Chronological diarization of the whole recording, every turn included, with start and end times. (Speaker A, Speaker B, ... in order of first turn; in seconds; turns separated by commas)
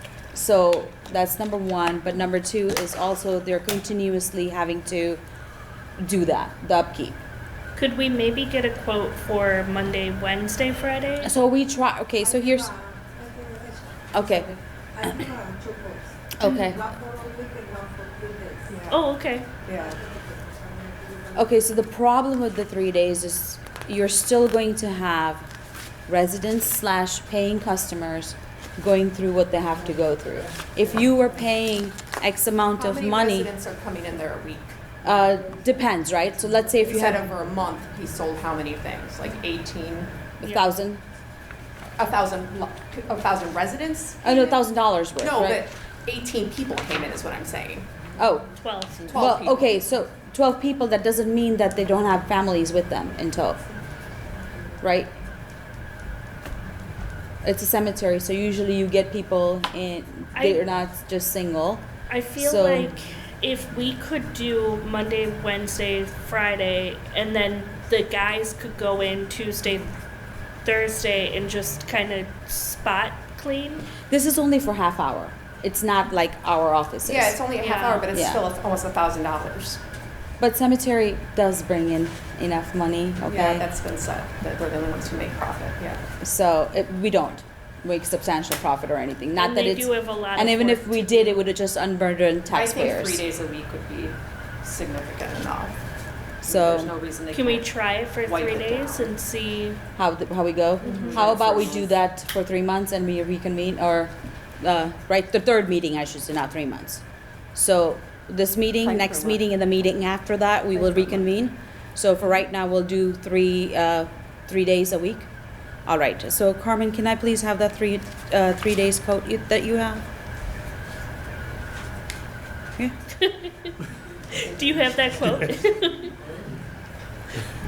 Speaker A: 0.3-5.2, Speaker A: 6.0-7.2, Speaker B: 7.8-11.3, Speaker A: 11.2-12.7, Speaker C: 12.2-19.0, Speaker A: 14.1-14.5, Speaker A: 16.4-16.9, Speaker B: 18.9-19.5, Speaker C: 19.6-21.5, Speaker A: 21.4-25.4, Speaker A: 26.1-33.5, Speaker D: 32.7-34.8, Speaker A: 35.0-37.3, Speaker D: 36.8-40.1, Speaker B: 40.4-40.7, Speaker A: 40.4-41.0, Speaker D: 42.0-44.6, Speaker A: 44.2-45.6, Speaker D: 45.2-47.9, Speaker A: 48.2-48.5, Speaker B: 48.6-49.2, Speaker D: 49.0-49.7, Speaker A: 49.1-53.6, Speaker A: 54.8-55.1, Speaker A: 57.4-62.9, Speaker B: 60.4-60.6, Speaker B: 62.1-69.9, Speaker B: 70.6-73.9, Speaker A: 74.1-77.4, Speaker D: 77.0-79.8, Speaker B: 77.6-78.1, Speaker A: 78.1-78.4, Speaker A: 80.4-83.7, Speaker D: 83.2-86.0, Speaker A: 86.2-93.2, Speaker B: 89.4-91.4, Speaker D: 92.5-95.8, Speaker A: 96.4-96.9, Speaker D: 96.5-99.1, Speaker B: 97.3-99.8, Speaker A: 100.0-107.0, Speaker D: 100.8-101.9, Speaker A: 107.5-115.3, Speaker D: 108.8-109.5, Speaker A: 115.9-120.0, Speaker B: 123.2-123.7, Speaker B: 124.3-126.2